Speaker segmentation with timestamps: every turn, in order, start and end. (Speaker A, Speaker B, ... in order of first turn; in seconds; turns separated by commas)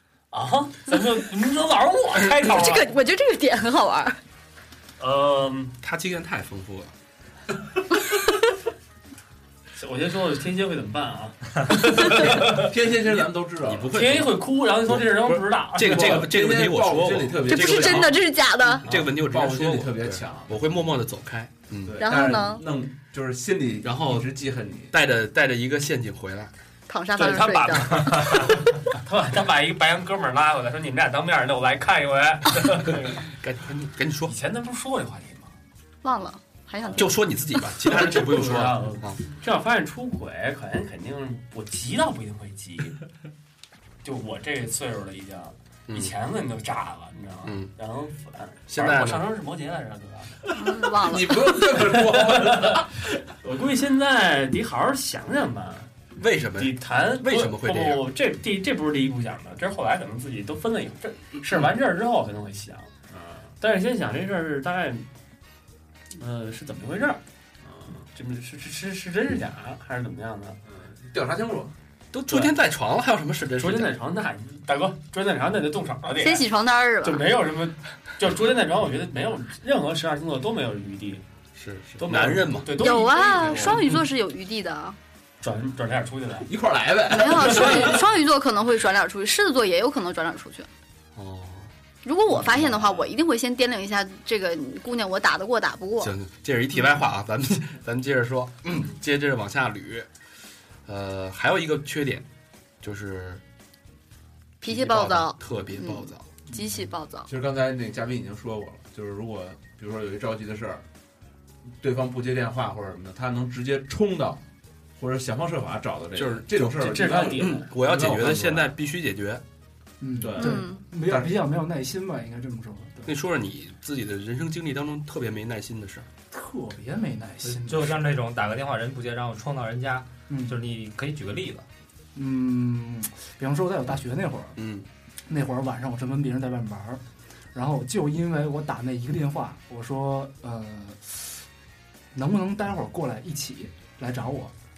Speaker A: 0.3-2.9, Speaker B: 2.4-4.2, Speaker A: 5.0-5.8, Speaker C: 5.8-6.9, Speaker A: 9.7-12.7, Speaker D: 12.2-14.0, Speaker C: 13.6-18.1, Speaker A: 13.9-16.3, Speaker D: 15.8-18.2, Speaker B: 17.5-18.9, Speaker C: 18.9-22.0, Speaker D: 18.9-20.7, Speaker D: 21.8-24.9, Speaker B: 22.0-22.6, Speaker C: 23.8-24.3, Speaker C: 24.9-26.5, Speaker B: 26.9-28.5, Speaker A: 27.2-33.2, Speaker E: 28.1-28.4, Speaker C: 33.2-34.3, Speaker A: 34.3-35.5, Speaker B: 36.0-37.2, Speaker A: 36.8-37.1, Speaker C: 37.0-39.2, Speaker A: 37.8-43.0, Speaker A: 44.0-55.9, Speaker C: 47.4-47.7, Speaker C: 48.7-49.3, Speaker B: 50.5-51.6, Speaker D: 51.0-52.9, Speaker C: 56.2-58.1, Speaker A: 56.6-62.9, Speaker D: 63.1-63.5, Speaker A: 63.6-65.1, Speaker A: 66.1-67.2, Speaker D: 67.6-68.0, Speaker A: 68.0-70.6, Speaker D: 70.7-71.7, Speaker C: 72.1-73.9, Speaker A: 72.3-72.5, Speaker A: 73.5-76.5, Speaker B: 76.2-77.3, Speaker A: 77.0-81.2, Speaker C: 81.5-83.0, Speaker A: 82.0-84.0, Speaker B: 82.8-85.0, Speaker A: 85.4-86.5, Speaker D: 86.5-87.9, Speaker B: 87.1-90.7, Speaker A: 87.4-87.9, Speaker C: 91.2-91.7, Speaker B: 92.0-96.1, Speaker A: 92.3-93.0, Speaker C: 96.0-100.1, Speaker C: 100.8-102.2, Speaker C: 102.8-103.4, Speaker B: 104.6-107.3, Speaker C: 104.6-106.2, Speaker D: 107.3-110.8, Speaker D: 111.8-114.4, Speaker D: 115.0-118.7, Speaker C: 116.2-119.4, Speaker A: 116.7-118.1, Speaker F: 120.0-123.1, Speaker D: 120.2-121.3, Speaker B: 120.4-120.8, Speaker C: 123.0-126.1, Speaker F: 126.3-128.1, Speaker E: 127.4-131.6, Speaker F: 130.3-130.6, Speaker F: 132.1-134.6, Speaker C: 134.6-134.9, Speaker F: 135.3-137.0, Speaker F: 137.5-141.4, Speaker F: 142.1-144.5